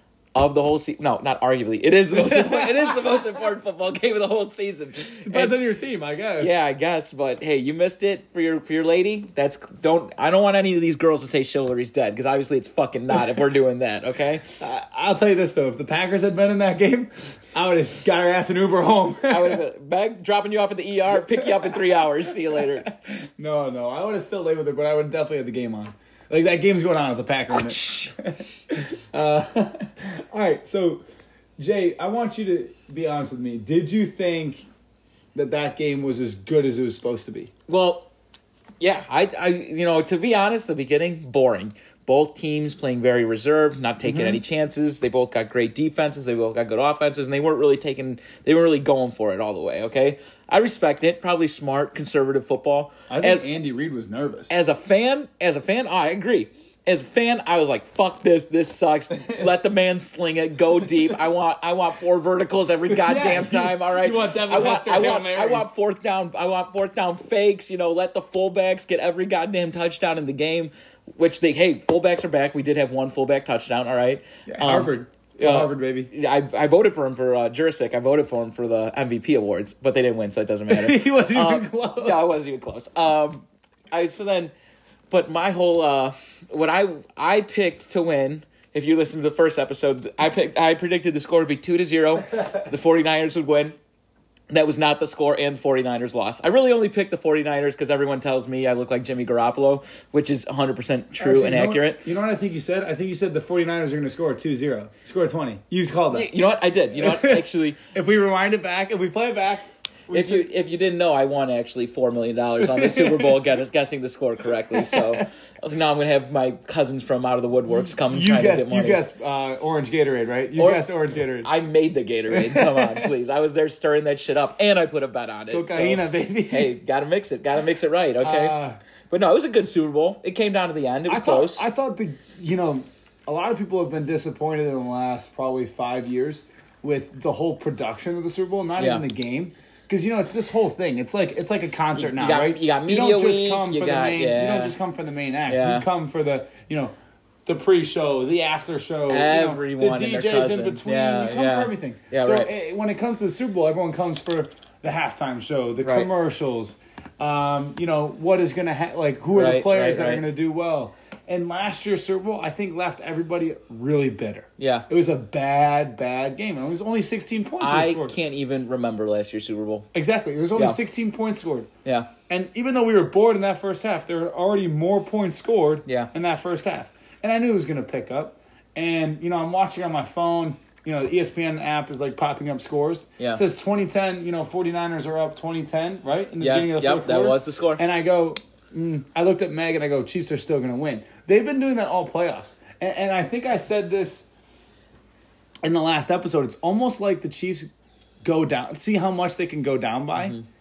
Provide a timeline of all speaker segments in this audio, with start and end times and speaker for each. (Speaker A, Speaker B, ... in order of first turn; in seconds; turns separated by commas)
Speaker A: 0.3-5.6, Speaker B: 2.1-3.2, Speaker B: 5.2-6.5, Speaker A: 6.4-14.4, Speaker B: 14.6-19.6, Speaker A: 19.3-22.9, Speaker B: 21.3-31.0, Speaker A: 27.5-28.1, Speaker B: 31.6-34.7, Speaker B: 35.4-37.5, Speaker A: 37.7-38.1, Speaker A: 38.8-53.5, Speaker B: 44.0-44.4, Speaker B: 53.1-54.5, Speaker A: 54.5-84.5, Speaker B: 62.9-65.7, Speaker B: 74.5-76.1, Speaker B: 80.7-82.3, Speaker A: 85.1-93.8, Speaker A: 94.5-102.1, Speaker B: 101.2-106.3, Speaker A: 106.1-107.8, Speaker B: 107.0-110.5, Speaker A: 110.1-119.0, Speaker B: 112.6-113.4, Speaker B: 114.7-115.2, Speaker B: 118.0-121.5, Speaker A: 120.6-120.8, Speaker A: 121.4-128.6, Speaker B: 122.3-123.1, Speaker B: 125.5-126.7, Speaker B: 128.2-128.8, Speaker A: 129.1-131.6, Speaker B: 131.1-146.9, Speaker A: 138.8-139.1, Speaker A: 142.0-144.8, Speaker A: 145.5-145.9, Speaker B: 147.5-168.2, Speaker A: 149.1-152.5, Speaker A: 155.8-156.1, Speaker A: 159.3-160.3, Speaker A: 164.6-164.9, Speaker A: 167.6-169.9, Speaker B: 169.9-171.7, Speaker A: 171.8-172.1, Speaker B: 172.3-194.3, Speaker A: 175.9-176.1, Speaker A: 186.4-187.8, Speaker B: 195.6-197.7, Speaker B: 198.2-200.4, Speaker A: 200.2-200.5